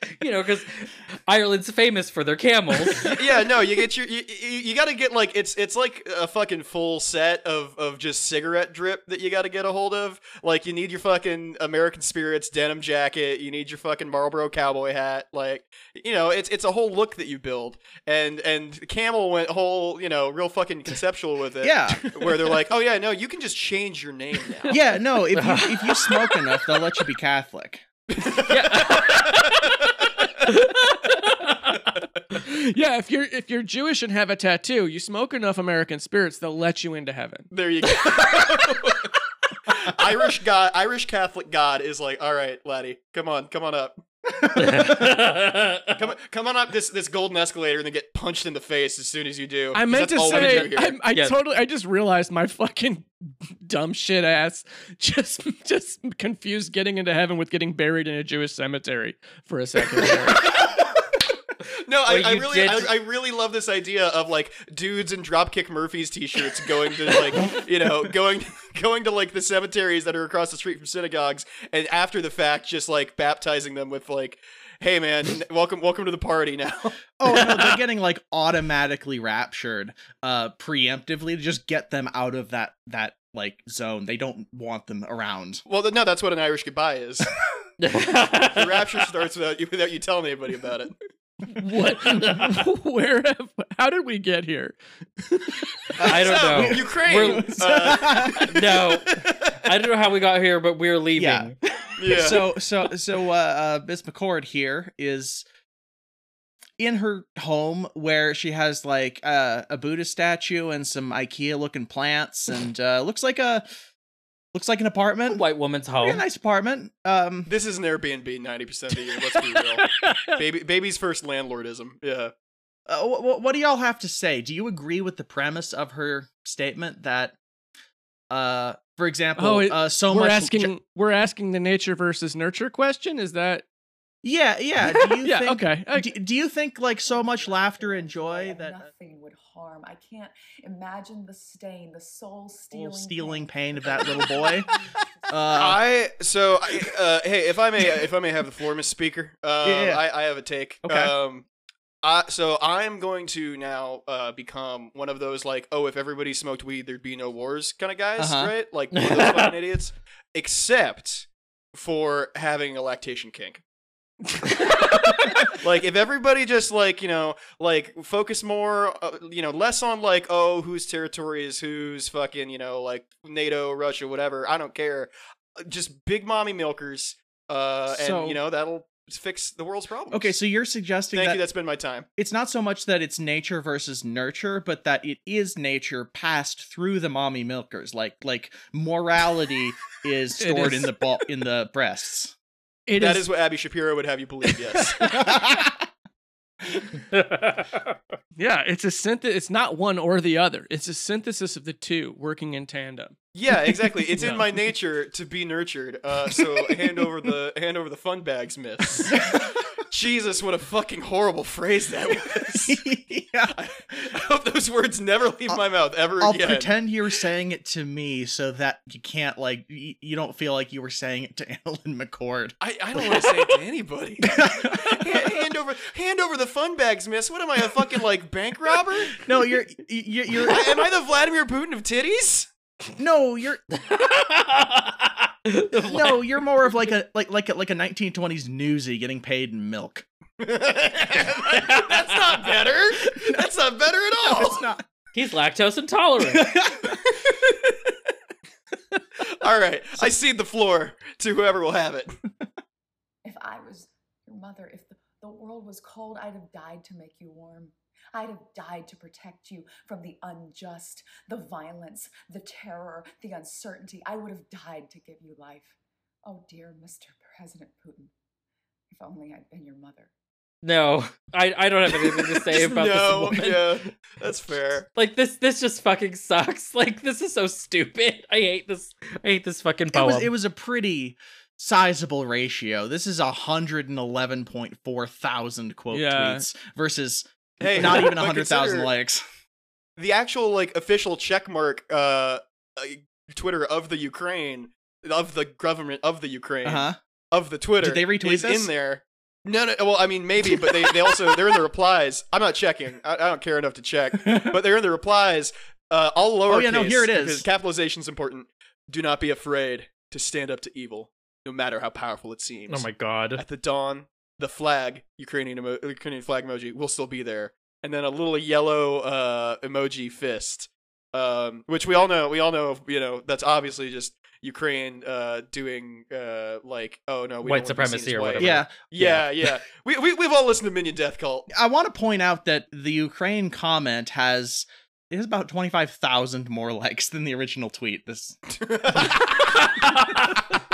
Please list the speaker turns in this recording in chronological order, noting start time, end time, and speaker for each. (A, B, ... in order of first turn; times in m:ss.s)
0:00.2-0:03.1 A
0:02.9-0:24.8 B
0:21.6-0:22.1 C
0:24.7-0:27.8 C
0:25.3-0:26.1 A
0:28.1-0:30.0 B
0:28.5-0:29.7 A
0:30.4-0:31.8 A
0:32.3-0:37.5 D
0:37.5-0:39.1 B
0:39.7-0:44.0 B
0:44.5-0:46.0 A
0:45.9-0:51.0 B
0:49.7-1:00.6 D
0:50.3-0:51.4 A
1:01.7-1:17.0 B
1:02.0-1:02.9 A
1:17.2-1:25.6 C
1:25.6-1:27.3 B
1:27.8-1:28.9 A
1:28.4-1:30.9 B
1:31.5-1:35.7 D
1:31.7-1:32.6 A
1:36.0-1:38.5 C
1:36.0-1:41.6 A
1:36.0-1:39.7 B
1:41.2-1:45.4 C
1:42.0-1:42.5 B
1:46.8-1:53.6 C
1:54.5-1:55.4 C
1:55.3-1:56.2 A
1:56.0-1:57.5 C
1:57.5-2:02.3 B
1:59.8-2:00.4 D
2:02.9-2:07.4 C
2:08.3-2:10.7 C
2:09.4-2:13.6 D
2:14.2-2:18.9 C
2:15.2-2:16.1 D
2:17.0-2:25.6 E
2:22.7-2:24.7 C
2:25.3-2:25.8 C
2:25.6-2:31.4 B
2:29.6-2:30.0 C
2:30.8-2:31.1 C
2:32.0-2:43.6 B
2:38.2-2:38.5 C
2:38.9-2:39.5 A
2:45.0-3:00.3 B
2:57.9-2:58.4 C
3:00.1-3:01.4 C
3:01.1-3:02.1 B
3:02.2-3:12.3 C
3:10.4-3:10.9 D
3:12.9-3:13.2 D
3:13.0-3:15.4 B
3:15.1-3:15.8 C
3:17.1-3:17.9 A
3:18.4-3:23.2 D
3:23.3-3:32.8 B
3:24.2-3:24.4 D
3:32.5-3:33.5 C
3:33.5-3:36.7 B
3:36.2-3:43.2 C
3:42.6-3:49.2 B
3:44.2-3:45.4 C
3:49.1-3:50.9 C
3:50.4-3:52.5 B
3:53.0-3:53.6 C
3:53.8-3:56.2 A
3:55.8-4:00.0 C
4:00.4-4:04.6 B
4:01.6-4:02.3 A
4:04.2-4:04.8 C
4:05.1-4:06.5 A
4:06.2-4:07.0 C
4:07.0-4:07.9 B
4:09.2-4:12.2 B
4:13.2-4:25.7 E
4:26.2-4:28.1 E
4:28.9-4:30.1 E
4:30.6-4:33.8 A
4:32.1-4:34.9 B
4:34.9-4:40.3 A
4:39.9-4:49.2 C
4:45.9-4:46.4 D
4:47.6-4:48.9 B
4:50.0-5:31.5 B
4:56.6-4:57.0 C
4:57.8-4:58.7 C
5:04.2-5:04.6 C
5:06.5-5:07.4 C
5:12.7-5:13.4 A
5:27.4-5:29.3 A
5:28.4-5:28.7 C
5:31.5-5:38.4 C
5:38.5-5:39.8 B
5:39.5-5:40.3 A